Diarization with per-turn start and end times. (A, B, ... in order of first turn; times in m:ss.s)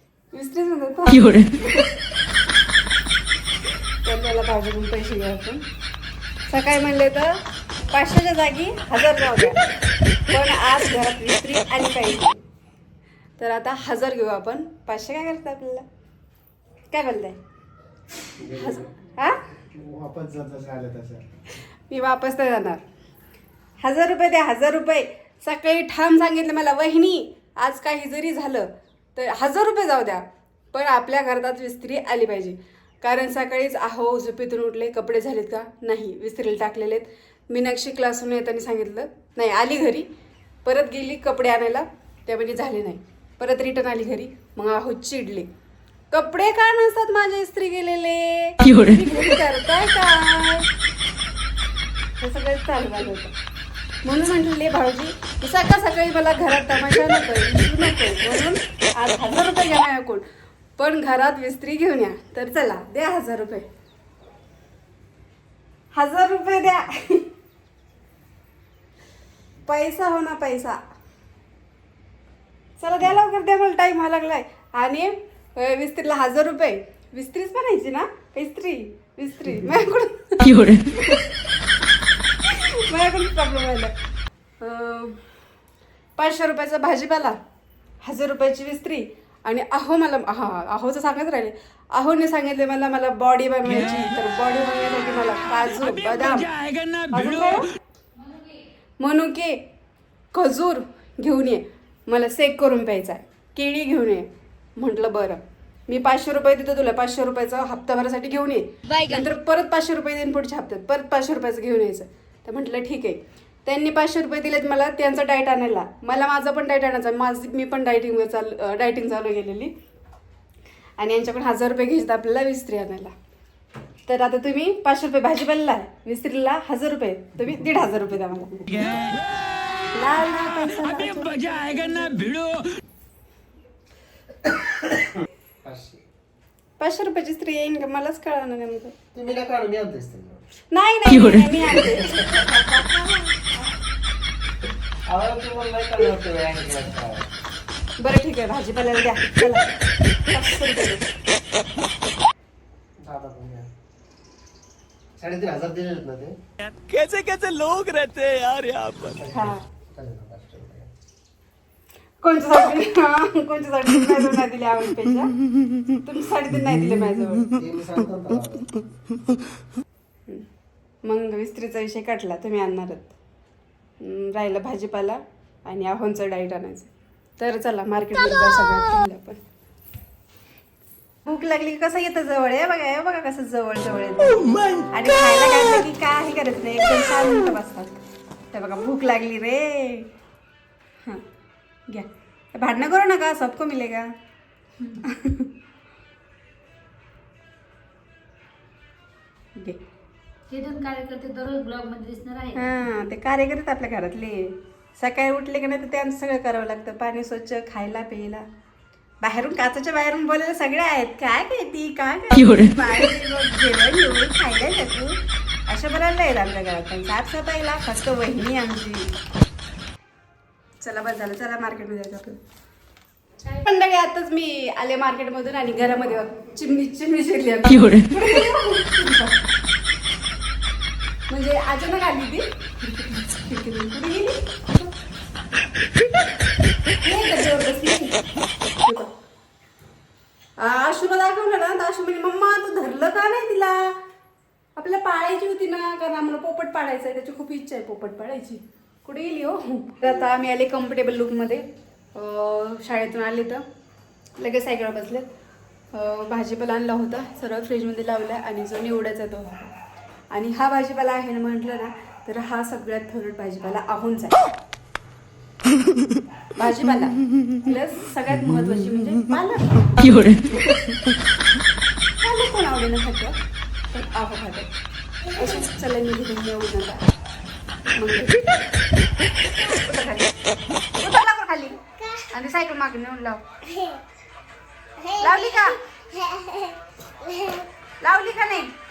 0:00.3-0:02.0 A
0:03.7-0:05.6 A
0:06.5-0:09.6 A
0:10.3-0:12.4 A
0:13.4-0:15.8 A
0:16.9-0:17.4 A
0:18.4-0:18.8 B
0:18.5-0:19.4 A
0:19.8-0:21.2 B
0:21.9-0:22.8 A
0:23.8-0:40.1 A
0:40.6-0:45.5 A
0:46.1-0:50.7 A
0:52.2-0:53.3 A
0:54.0-1:00.3 A
1:00.8-1:03.6 A
1:05.9-1:07.3 A
1:09.7-1:10.8 A
1:12.8-1:21.2 A
1:22.5-1:23.9 A
1:24.6-1:25.2 A
1:26.2-1:27.4 A
1:28.0-1:36.6 A
1:36.1-1:37.1 C
1:37.1-1:37.7 A
1:39.0-1:39.6 A
1:40.3-1:59.7 A
2:01.0-2:03.1 A
2:04.1-2:09.0 A
2:09.9-2:12.3 A
2:12.1-2:12.6 C
2:14.5-2:16.0 B
2:16.8-2:19.0 A
2:19.2-2:20.4 B
2:20.7-2:22.3 A
2:21.8-2:22.2 B
2:25.1-2:27.3 B
2:28.0-2:29.6 A
2:30.3-2:31.1 A
2:33.0-2:33.7 B
2:35.2-2:36.4 B
2:36.8-2:39.2 C
2:39.2-2:40.9 B
2:39.3-2:39.6 A
2:42.2-2:45.3 A
2:46.0-2:47.5 A
2:47.6-2:48.9 B
2:51.0-2:53.1 A
2:54.0-2:59.4 A
3:01.3-3:10.1 A
3:11.9-3:14.1 A
3:15.0-3:15.5 A
3:20.5-3:22.6 D
3:20.7-3:22.5 C
3:22.6-3:28.5 A
3:29.2-3:39.1 A
3:40.8-3:42.4 A
3:43.5-3:49.4 A
3:51.3-3:54.9 A
3:57.0-3:58.2 A
3:58.8-3:59.1 A
4:00.6-4:04.0 A
4:04.8-4:13.6 A
4:14.4-4:15.3 A
4:15.9-4:19.7 A
4:20.3-4:24.5 A
4:26.6-4:30.3 A
4:32.2-4:33.4 A
4:33.9-4:34.7 A
4:35.4-4:37.0 A
4:38.0-4:38.4 A
4:39.6-4:40.3 A
4:41.0-4:41.8 A
4:42.0-4:42.2 D
4:42.3-4:43.4 A
4:43.6-4:44.0 D
4:45.0-4:47.7 D
4:45.2-4:45.7 A
4:48.0-4:48.7 A